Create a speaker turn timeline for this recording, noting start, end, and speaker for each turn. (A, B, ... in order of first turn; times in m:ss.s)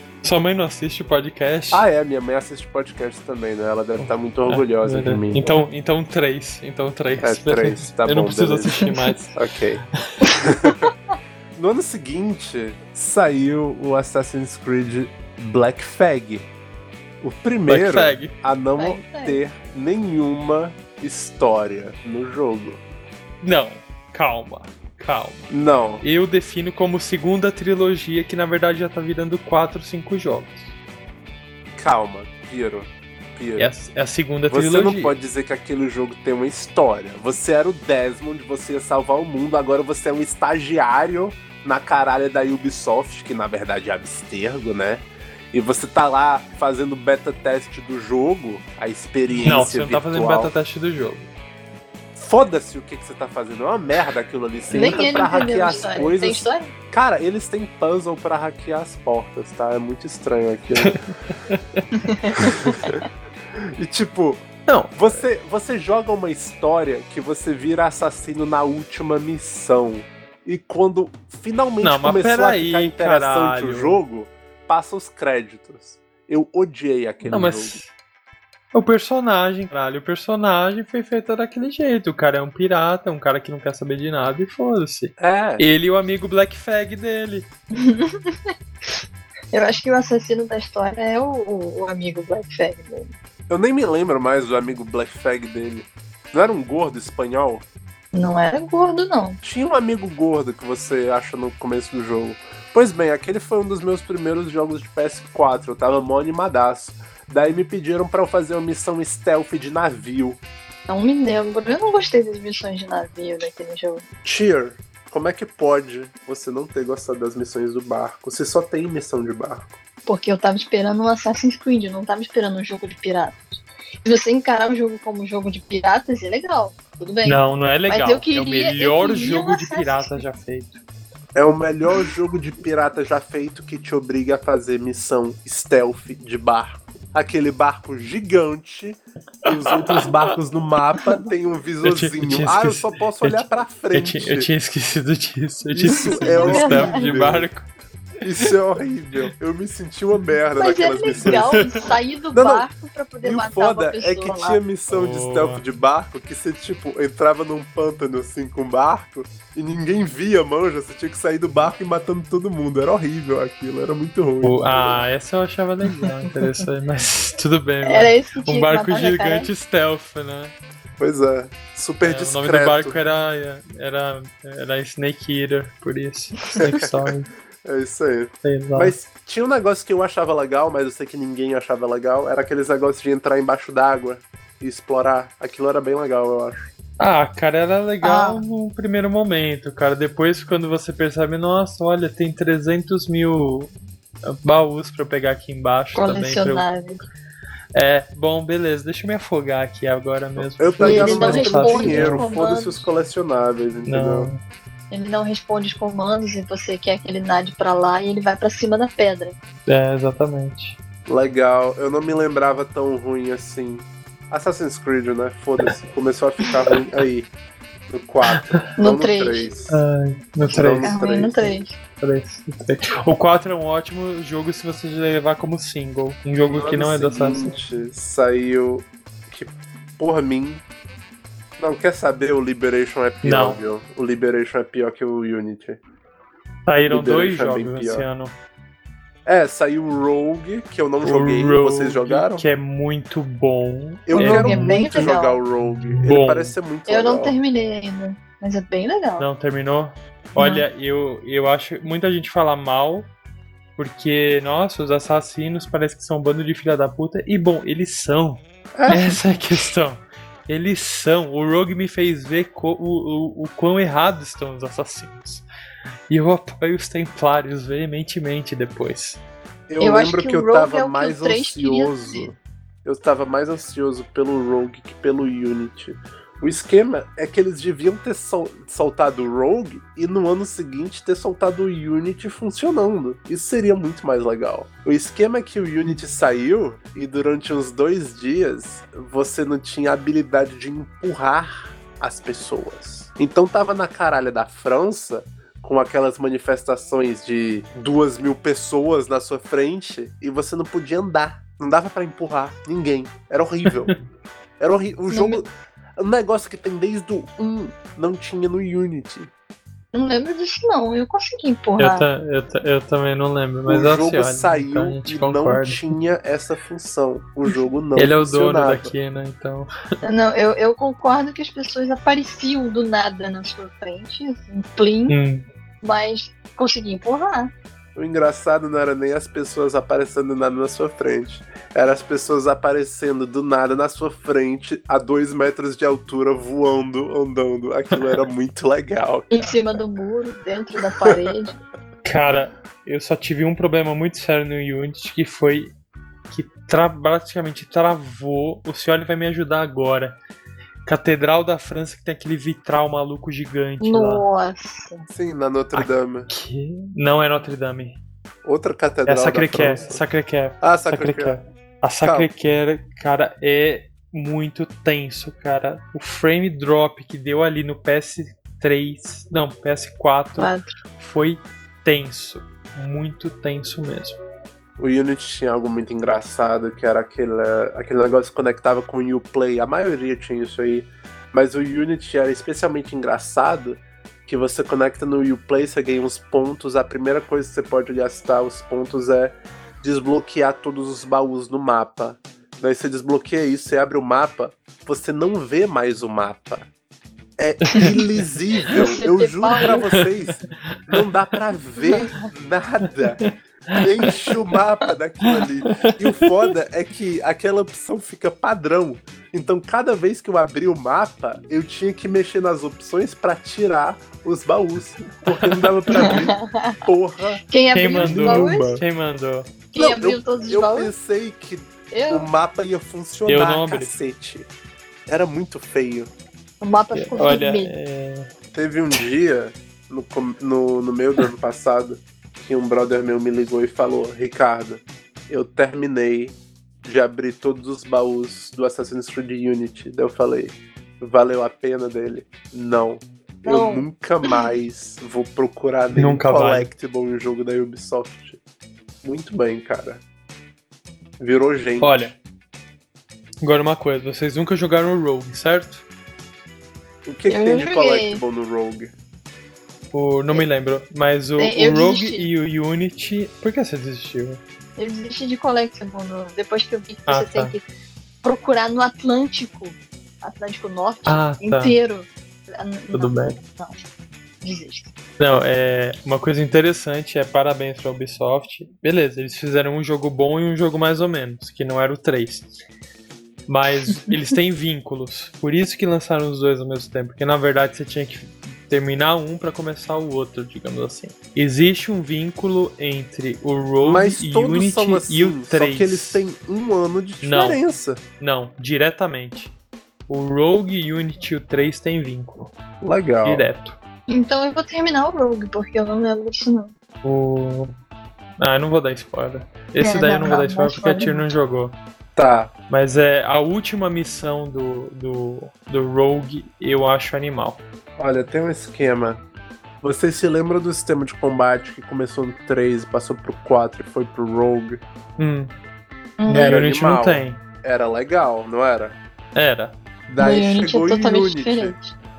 0:00.2-0:01.8 A
0:01.7-0:05.6 B
0:04.0-0:09.3 A
0:07.2-0:09.8 B
0:10.2-0:10.8 C
0:10.3-0:10.9 B
0:11.6-0:16.5 B
0:17.2-0:22.8 B
0:17.7-0:18.3 A
0:18.8-0:19.4 C
0:23.4-0:25.5 A
0:25.5-0:26.0 B
0:26.0-0:30.7 A
0:31.8-0:33.7 B
0:33.6-0:35.1 A
0:34.5-0:50.5 B
0:49.3-0:51.3 A
0:52.1-1:01.0 B
0:54.7-0:56.7 C
1:00.8-1:01.8 A
1:02.0-1:02.3 C
1:02.3-1:17.8 B
1:04.7-1:05.2 A
1:11.8-1:14.0 A
1:17.2-1:17.9 A
1:18.7-1:27.5 A
1:25.2-1:25.6 B
1:27.7-1:28.9 C
1:29.5-1:33.1 C
1:33.5-1:37.6 B
1:38.1-1:39.4 C
1:39.4-1:50.4 B
1:50.9-1:54.0 C
1:54.2-1:59.8 B
2:00.0-2:03.4 C
2:04.0-2:10.2 C
2:07.2-2:10.8 A
2:11.3-2:24.5 B
2:19.4-2:20.3 A
2:21.8-2:27.7 A
2:25.7-2:27.5 B
2:25.9-2:27.1 C
2:28.2-2:31.7 B
2:30.6-2:34.6 C
2:31.1-2:31.9 A
2:32.3-2:32.7 B
2:33.2-2:45.0 B
2:34.9-2:35.6 A
2:44.4-2:50.5 A
2:46.0-2:46.5 C
2:47.8-2:49.5 C
2:51.0-2:53.0 B
2:52.0-2:57.3 A
2:56.5-2:57.1 B
2:57.6-3:06.7 B
2:58.4-2:58.9 A
3:07.0-3:13.7 A
3:08.0-3:08.4 C
3:14.2-3:16.7 A
3:15.9-3:17.0 C
3:17.7-3:22.4 A
3:20.4-3:24.3 B
3:20.8-3:22.9 C
3:23.9-3:24.4 A
3:24.9-3:29.4 C
3:29.7-3:30.8 A
3:31.1-3:37.3 B
3:37.9-3:39.8 B
3:38.3-3:38.6 A
3:38.8-3:39.5 C
3:39.7-3:41.0 A
3:40.4-3:41.7 C
3:40.5-3:41.6 B
3:42.0-3:47.5 A
3:46.5-3:50.6 B
3:51.6-3:55.8 B
3:53.2-3:53.6 A
3:56.6-3:58.3 A
3:56.9-3:58.1 B
3:59.2-4:02.4 B
4:01.0-4:05.1 A
4:04.0-4:07.4 B
4:04.1-4:05.4 C
4:05.7-4:06.5 A
4:06.9-4:09.3 C
4:09.2-4:13.1 A
4:10.4-4:10.6 C
4:13.8-4:25.4 A
4:18.8-4:19.4 B
4:26.1-4:29.2 A
4:29.7-5:03.9 B
4:29.8-4:32.2 C
5:03.7-5:03.9 A
5:04.6-5:09.3 B
5:05.1-5:05.4 C
5:09.9-5:12.0 C
5:11.8-5:16.0 A
5:13.6-5:18.9 B
5:18.0-5:19.7 A
5:20.0-5:25.2 C
5:25.1-5:25.4 A
5:25.8-5:27.5 C
5:28.0-5:39.5 B
5:37.9-5:38.2 A
5:39.3-5:41.6 C
5:42.0-5:45.7 A
5:46.3-5:50.2 A
5:50.8-5:54.2 A
5:53.8-5:55.0 C
5:55.1-5:56.3 B
5:55.7-5:58.0 A
5:58.4-6:00.0 B
5:59.1-6:14.2 A
6:00.6-6:01.4 B
6:02.0-6:02.3 B
6:10.4-6:10.7 C
6:14.8-6:36.7 B
6:37.4-6:43.2 B
6:37.7-6:38.0 A
6:38.7-6:40.0 C
6:39.6-6:40.0 A
6:40.9-6:41.3 A
6:41.9-6:42.3 C
6:43.2-6:44.4 A
6:43.8-6:58.8 B
6:45.4-6:46.0 A
6:55.3-6:56.2 A
6:56.0-6:56.8 C
6:57.4-6:58.8 C
6:57.7-6:59.5 A
6:59.7-7:00.9 C
6:59.8-7:04.5 B
7:01.9-7:02.3 C
7:03.3-7:03.9 A
7:05.1-7:06.1 B
7:06.6-7:07.7 C
7:06.9-7:08.3 A
7:08.5-7:28.4 B
7:23.4-7:24.4 C
7:26.0-7:26.7 A
7:29.0-7:30.0 B
7:31.2-7:32.1 B
7:31.8-7:32.2 A
7:33.4-7:35.8 A
7:37.0-7:38.9 B
7:37.3-7:38.2 C
7:39.9-7:44.4 A
7:41.4-7:42.3 C
7:44.8-7:47.6 C
7:47.1-7:47.5 A
7:48.2-7:53.8 C
7:51.0-7:51.8 A
7:52.9-7:53.4 A
7:54.4-7:54.9 C
7:55.2-8:02.6 A
8:03.5-8:16.2 A
8:13.8-8:18.0 B
8:17.2-8:17.6 A
8:18.2-8:19.5 A
8:20.1-8:22.5 A
8:22.8-8:23.5 B
8:23.2-8:23.8 A
8:24.1-8:26.7 C
8:27.0-8:27.7 A
8:28.4-8:31.8 A
8:29.8-8:31.2 C
8:32.2-8:32.5 B
8:32.7-8:37.6 A
8:38.0-8:39.2 B
8:39.8-8:44.8 B
8:45.2-8:45.5 A
8:46.2-8:46.6 C
8:46.3-8:47.4 A
8:46.3-8:49.0 B
8:49.3-8:49.7 A
8:50.1-8:51.8 B
8:50.2-8:52.0 C